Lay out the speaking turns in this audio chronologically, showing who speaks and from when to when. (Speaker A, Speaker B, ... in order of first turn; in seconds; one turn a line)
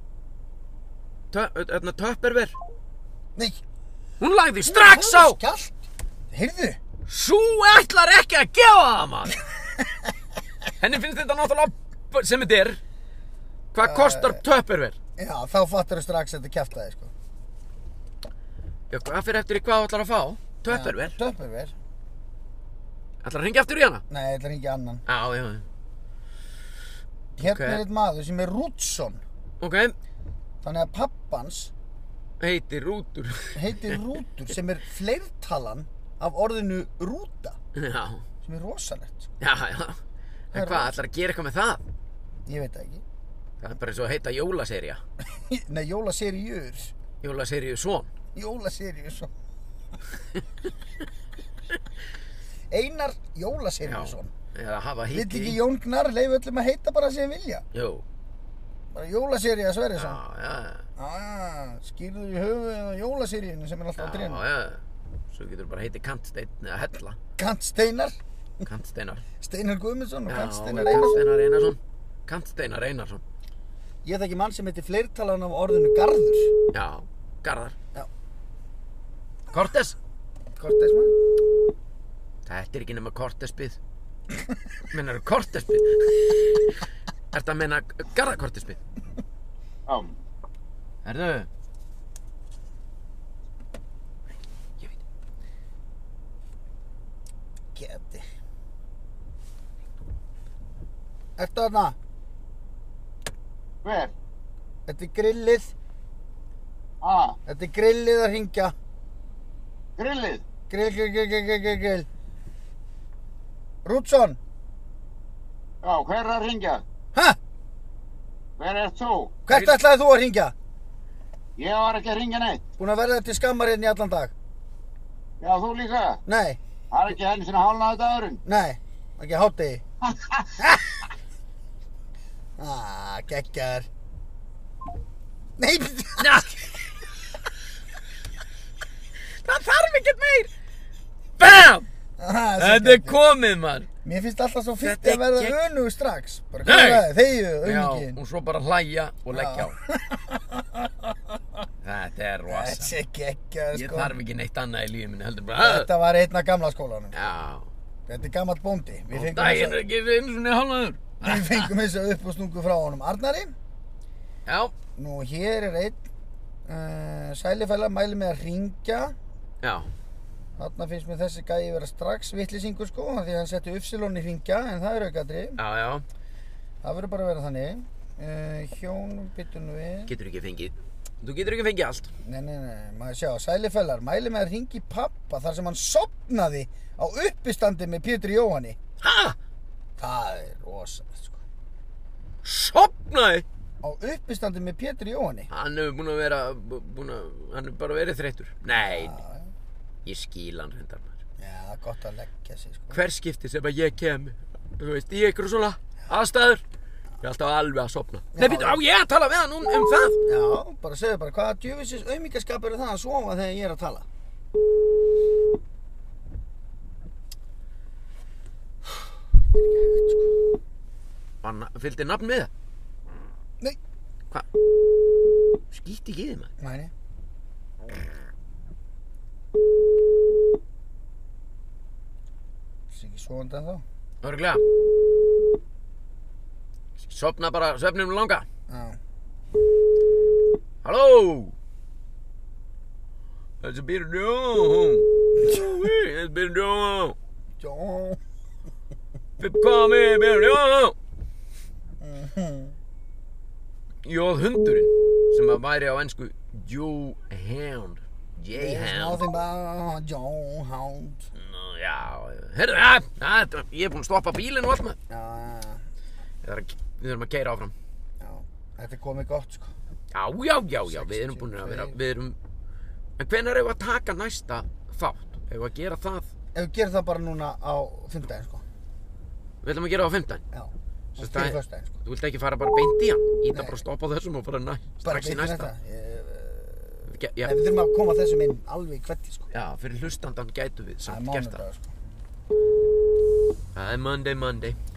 Speaker A: 1.3-2.6
Speaker B: 3.4-3.6
Speaker A: 4.2-5.4
Speaker B: 4.6-6.8
Speaker A: 7.1-9.4
Speaker A: 10.8-12.8
Speaker A: 13.7-15.0
Speaker B: 13.8-14.4
Speaker B: 15.2-17.1
Speaker A: 18.9-21.2
Speaker B: 20.7-21.7
Speaker A: 23.2-24.0
Speaker B: 24.1-25.0
Speaker A: 25.1-25.7
Speaker B: 27.4-29.2
Speaker A: 27.4-27.8
Speaker A: 29.6-29.9
Speaker B: 30.6-31.7
Speaker A: 32.4-34.0
Speaker B: 33.5-37.6
Speaker A: 37.8-38.2
Speaker B: 38.4-39.3
Speaker A: 39.4-40.0
Speaker A: 40.5-41.8
Speaker B: 40.5-40.9
Speaker B: 42.5-43.0
Speaker A: 43.6-45.0
Speaker B: 45.3-46.9
Speaker A: 47.2-48.1
Speaker B: 48.4-49.3
Speaker B: 52.7-54.3
Speaker A: 53.9-55.6
Speaker B: 55.1-57.6
Speaker A: 57.7-58.0
Speaker B: 58.9-60.2
Speaker A: 60.0-60.9
Speaker B: 61.0-64.4
Speaker A: 64.0-67.2
Speaker B: 67.4-68.6
Speaker A: 68.6-69.3
Speaker B: 69.4-71.3
Speaker A: 70.3-73.2
Speaker B: 74.0-76.6
Speaker A: 76.7-77.8
Speaker A: 79.5-80.0
Speaker B: 80.6-81.1
Speaker A: 82.5-83.8
Speaker A: 84.9-88.8
Speaker C: 89.9-90.2
Speaker A: 91.0-91.5
Speaker B: 97.8-98.2
Speaker B: 101.4-102.0
Speaker C: 103.8-104.1
Speaker B: 104.9-105.7
Speaker C: 107.0-107.4
Speaker B: 107.5-108.7
Speaker C: 110.0-110.4
Speaker B: 110.7-112.1
Speaker B: 113.8-114.4
Speaker C: 115.8-116.8
Speaker C: 118.6-119.4
Speaker B: 119.5-120.5
Speaker A: 119.5-119.8
Speaker C: 121.6-122.6
Speaker B: 122.8-124.3
Speaker C: 125.4-126.2
Speaker B: 126.3-126.6
Speaker C: 126.9-128.4
Speaker B: 128.4-129.8
Speaker C: 130.1-130.8
Speaker B: 132.6-133.9
Speaker B: 135.6-136.5
Speaker A: 136.2-136.8
Speaker A: 139.4-140.5
Speaker A: 141.4-141.9
Speaker B: 142.2-143.3
Speaker A: 142.6-143.9
Speaker B: 144.1-148.2
Speaker A: 144.8-145.6
Speaker A: 146.6-147.1
Speaker A: 147.6-149.8
Speaker B: 149.3-150.9
Speaker A: 151.8-153.0
Speaker B: 152.5-154.2
Speaker A: 153.7-155.9
Speaker B: 155.6-157.3
Speaker A: 157.1-157.7
Speaker B: 158.1-159.8
Speaker A: 159.1-161.7
Speaker B: 161.2-163.5
Speaker A: 164.5-164.7
Speaker B: 165.0-166.0
Speaker B: 166.7-169.2
Speaker A: 169.6-169.9
Speaker B: 170.6-175.6
Speaker A: 175.6-176.1
Speaker B: 176.8-180.1
Speaker A: 180.1-182.1
Speaker B: 182.2-188.8
Speaker A: 189.0-189.4
Speaker B: 190.0-191.4
Speaker A: 192.4-193.4
Speaker B: 193.8-195.5
Speaker A: 195.5-199.2
Speaker B: 198.8-199.5
Speaker A: 200.1-201.1
Speaker B: 201.4-203.0
Speaker A: 202.9-206.6
Speaker A: 207.2-210.2
Speaker B: 208.3-208.8
Speaker B: 210.3-214.1
Speaker B: 218.9-220.3
Speaker A: 221.4-222.5
Speaker A: 225.7-226.5
Speaker B: 226.6-226.9
Speaker B: 232.9-233.8
Speaker A: 234.2-234.6
Speaker A: 237.0-238.5
Speaker B: 238.7-239.0
Speaker A: 240.8-241.6
Speaker A: 243.6-247.2
Speaker B: 247.6-248.2
Speaker A: 249.4-251.0
Speaker B: 252.0-252.7
Speaker A: 254.0-259.3
Speaker B: 258.5-261.3
Speaker A: 261.4-265.0
Speaker B: 265.1-265.8
Speaker A: 266.4-267.7
Speaker B: 268.2-269.7
Speaker A: 270.1-272.4
Speaker B: 270.9-272.0
Speaker A: 273.2-276.3
Speaker B: 276.6-278.6
Speaker A: 279.6-280.4
Speaker B: 280.5-281.9
Speaker A: 281.2-285.7
Speaker B: 283.5-283.8
Speaker B: 285.0-289.5
Speaker A: 287.1-287.6
Speaker A: 289.5-291.6
Speaker B: 291.1-291.9
Speaker A: 293.7-294.8